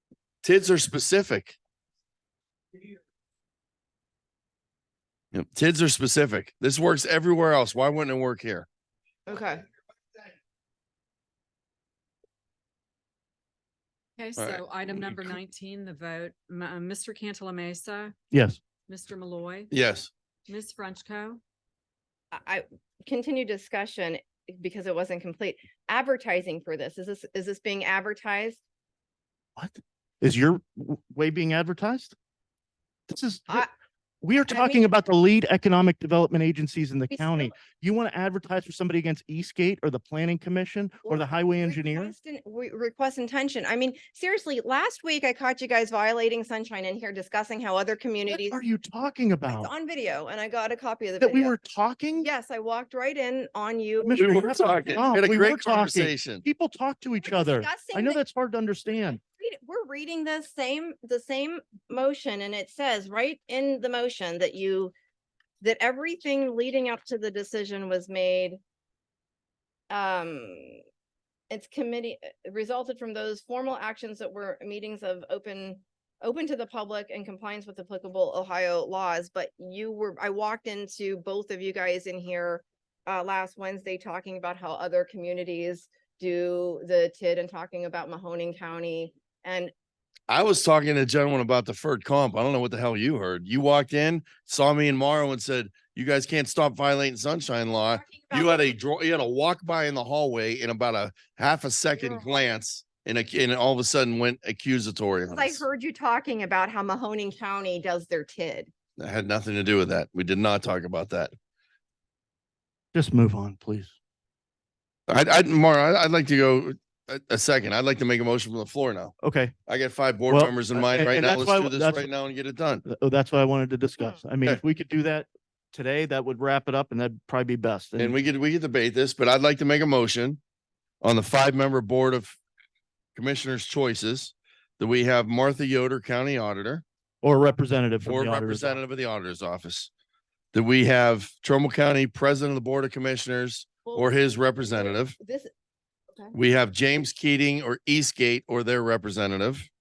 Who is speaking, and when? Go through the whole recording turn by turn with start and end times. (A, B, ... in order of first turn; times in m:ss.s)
0:00.4-0:01.6 A
0:05.3-0:08.7 A
0:09.3-0:09.6 B
0:14.2-0:18.1 C
0:14.4-0:15.2 A
0:18.3-0:18.6 D
0:18.9-0:19.7 C
0:19.7-0:20.1 A
0:20.5-0:21.4 C
0:22.3-0:28.6 B
0:29.6-0:32.1 D
0:33.1-0:33.7 D
0:34.2-0:42.1 D
0:34.4-0:34.9 B
0:37.1-0:37.5 B
0:41.0-0:48.6 B
0:48.3-0:49.7 D
0:49.5-0:51.5 B
0:51.2-0:52.3 D
0:52.2-0:54.4 B
0:54.0-0:59.2 D
0:54.2-0:56.4 A
0:57.2-0:58.2 B
0:59.2-1:04.9 B
1:05.6-1:08.6 B
1:09.9-1:10.8 B
1:11.5-1:29.7 B
1:30.3-1:45.6 A
1:37.8-1:38.8 B
1:41.9-1:42.5 B
1:45.3-1:48.7 B
1:49.0-1:51.3 A
1:52.9-1:53.9 D
1:55.1-1:59.1 A
1:59.2-1:59.5 D
1:59.7-2:02.8 A
2:00.3-2:02.1 D
2:02.8-2:08.2 D
2:08.0-2:10.4 A
2:11.0-2:12.4 A
2:13.1-2:16.8 A
2:17.2-2:18.8 D
2:18.0-2:19.9 A
2:20.5-2:25.1 A
2:23.8-2:25.5 B
2:26.3-2:29.7 A